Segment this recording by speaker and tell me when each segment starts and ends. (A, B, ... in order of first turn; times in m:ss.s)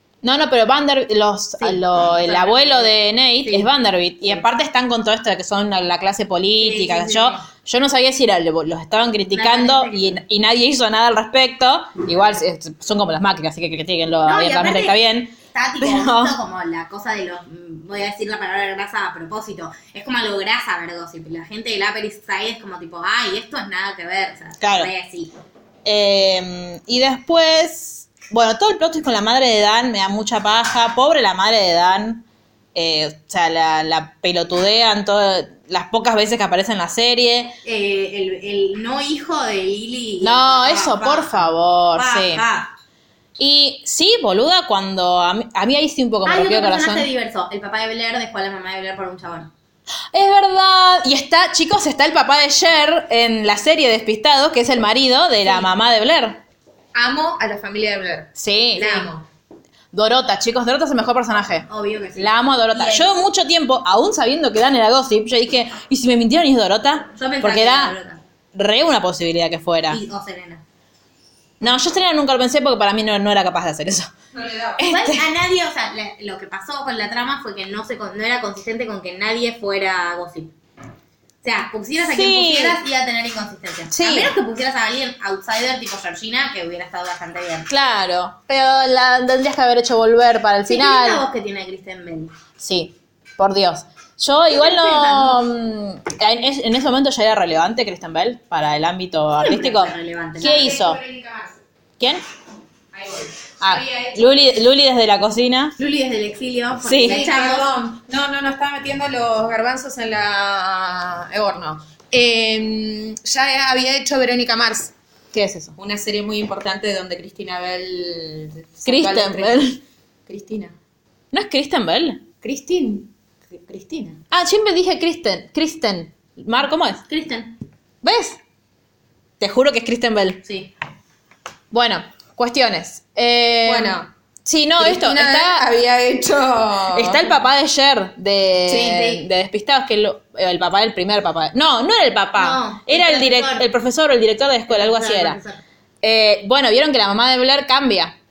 0:00.2-0:16.4 A
0:01.6-0:03.7 B
0:06.6-0:07.4 B
0:09.3-0:10.2 B
0:14.2-0:25.3 B
0:24.6-0:24.9 A
0:25.8-0:32.2 A
0:32.8-0:37.6 A
0:37.6-0:41.4 B
0:40.2-0:42.4 A
0:42.0-0:42.7 B
0:43.4-0:47.1 A
0:46.2-0:49.5 B
0:50.1-0:56.4 A
0:56.9-0:59.2 C
0:58.4-0:58.9 A
0:58.8-0:59.1 B
0:59.9-1:08.0 A
1:01.7-1:03.2 B
1:07.2-1:08.2 B
1:08.5-1:10.0 A
1:09.9-1:10.6 B
1:11.6-1:14.1 A
1:14.3-1:14.8 C
1:14.8-1:15.2 A
1:14.8-1:20.5 B
1:21.4-1:27.7 B
1:22.1-1:22.8 A
1:23.9-1:24.3 A
1:27.7-1:31.2 A
1:30.7-1:32.3 B
1:32.6-1:41.0 A
1:34.5-1:35.4 B
1:39.4-1:40.7 B
1:40.4-1:41.6 C
1:42.9-1:44.6 C
1:43.6-1:45.8 A
1:45.8-1:47.7 B
1:46.8-1:47.2 A
1:47.0-1:54.9 C
1:55.3-1:55.8 A
1:55.8-1:59.7 C
1:58.9-1:59.8 A
2:00.3-2:00.7 C
2:01.3-2:02.2 A
2:02.4-2:04.2 C
2:04.3-2:07.0 A
2:07.1-2:07.5 B
2:08.0-2:08.4 A
2:09.4-2:10.4 A
2:10.4-2:10.7 B
2:11.7-2:15.6 A
2:13.6-2:14.1 C
2:14.8-2:17.3 C
2:16.9-2:25.4 A
2:18.7-2:19.2 C
2:22.4-2:23.7 B
2:24.7-2:25.6 B
2:26.0-2:28.2 A